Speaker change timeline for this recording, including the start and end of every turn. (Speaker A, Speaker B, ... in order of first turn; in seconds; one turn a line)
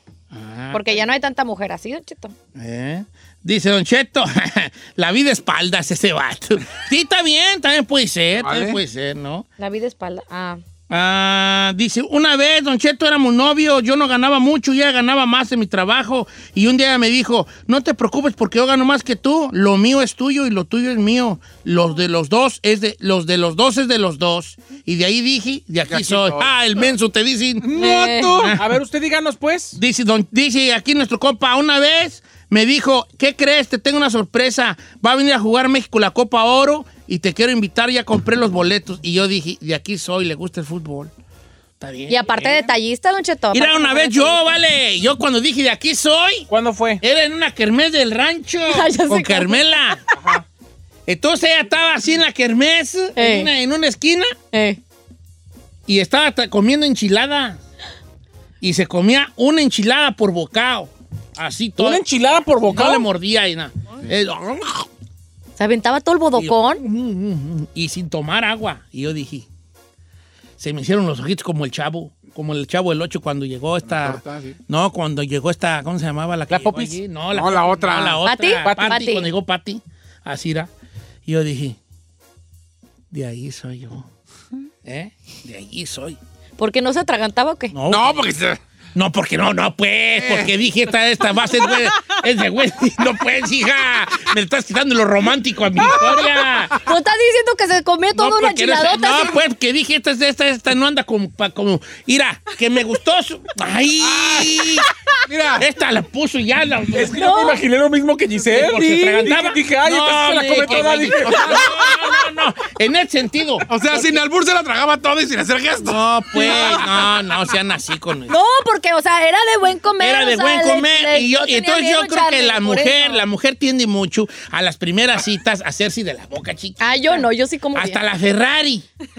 Speaker A: 0.3-1.1
Speaker B: 0.7-2.3
Speaker A: 2.5-9.4
Speaker C: 8.4-8.8
Speaker B: 9.6-10.6
Speaker A: 10.9-27.8
Speaker C: 25.9-26.5
Speaker C: 27.6-28.6
Speaker B: 27.7-28.5
Speaker D: 28.6-29.8
Speaker A: 29.8-41.1
Speaker A: 41.8-42.7
Speaker B: 42.1-44.4
Speaker A: 43.5-46.5
Speaker D: 46.5-47.0
Speaker A: 47.0-50.0
Speaker B: 48.7-49.6
Speaker D: 50.1-50.4
Speaker A: 51.0-54.3
Speaker B: 53.1-53.5
Speaker B: 54.5-54.8
Speaker A: 55.9-57.6
Speaker A: 58.6-62.0
Speaker D: 61.8-63.1
Speaker A: 62.7-64.9
Speaker B: 65.6-66.8
Speaker A: 66.3-69.5
Speaker A: 70.6-80.7
Speaker C: 73.8-74.5
Speaker D: 76.5-77.0
Speaker C: 77.3-78.2
Speaker B: 78.2-79.3
Speaker D: 78.6-79.0
Speaker A: 81.2-81.8
Speaker A: 83.1-84.1
Speaker A: 84.8-86.2
Speaker B: 86.6-87.7
Speaker A: 87.7-88.3
Speaker C: 87.9-88.6
Speaker A: 88.9-96.8
Speaker C: 90.1-90.5
Speaker C: 95.9-96.7
Speaker B: 96.8-99.4
Speaker A: 98.1-104.8
Speaker C: 104.0-105.6
Speaker A: 105.5-107.2
Speaker D: 106.9-111.6
Speaker B: 107.1-107.6
Speaker A: 108.5-114.2
Speaker C: 110.7-111.9
Speaker C: 113.7-117.2
Speaker A: 115.9-118.3
Speaker B: 118.3-123.2
Speaker A: 120.0-126.8
Speaker B: 126.8-128.0
Speaker A: 127.7-128.8